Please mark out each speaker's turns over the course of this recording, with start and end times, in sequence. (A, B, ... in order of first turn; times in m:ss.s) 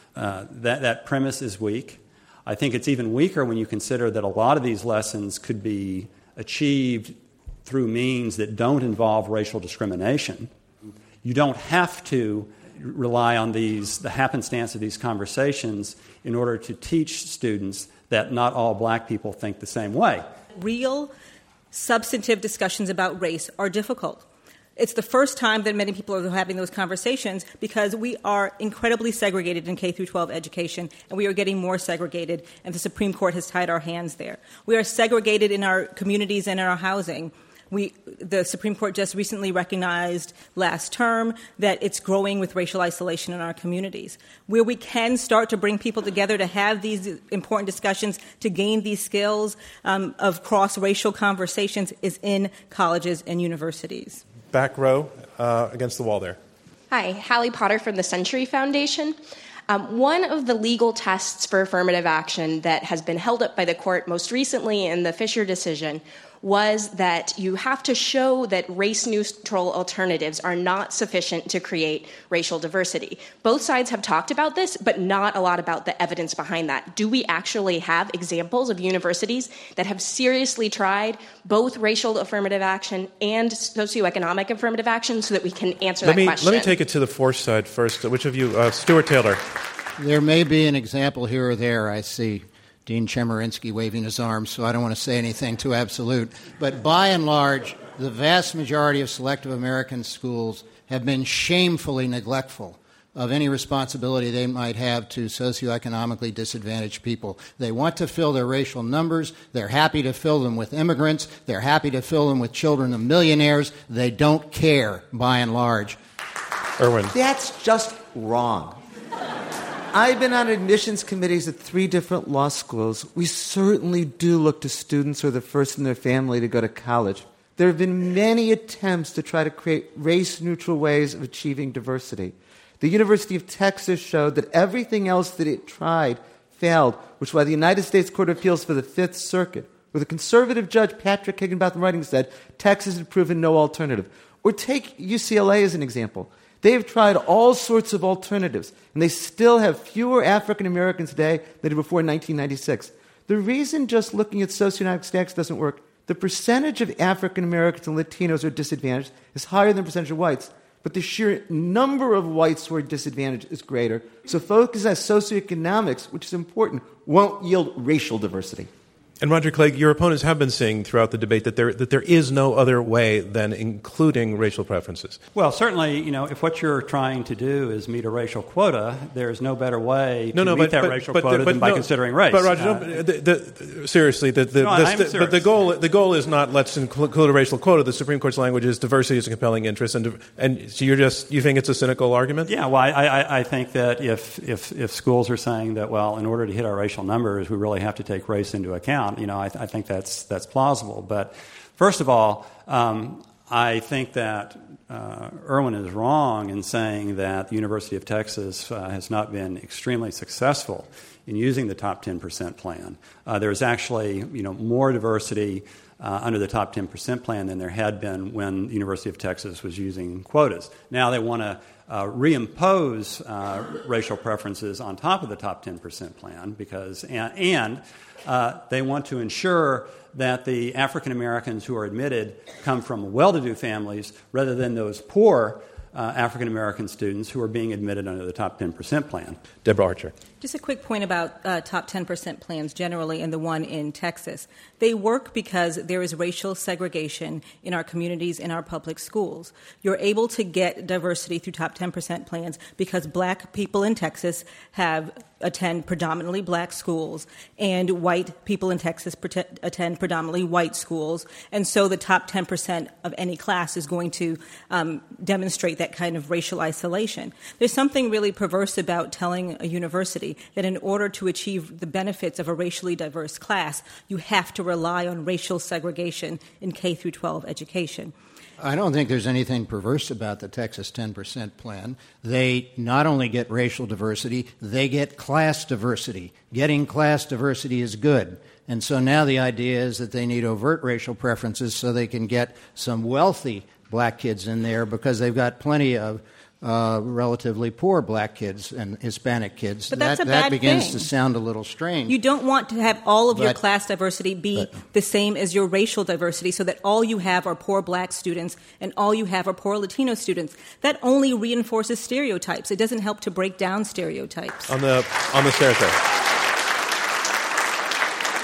0:00.2-0:10.5 A
0:11.2-0:20.3 A
0:20.6-0:21.1 B
0:21.7-0:24.2 B
0:24.8-0:54.2 B
0:54.5-0:56.4 C
0:56.9-0:59.2 D
0:59.7-1:26.7 D
1:26.0-1:29.4 C
1:30.0-1:56.0 E
1:56.8-1:57.1 C
1:57.1-1:58.8 F
1:59.9-2:48.7 F
2:49.2-2:55.2 C
2:55.4-3:03.0 A
3:00.3-3:12.5 C
3:04.6-3:05.4 A
3:12.5-3:59.4 A
3:59.6-4:00.1 C
4:00.4-4:38.1 B
4:38.6-5:02.2 E
4:59.9-5:01.1 B
5:02.1-5:14.7 B
5:03.3-5:03.6 E
5:14.7-5:16.0 C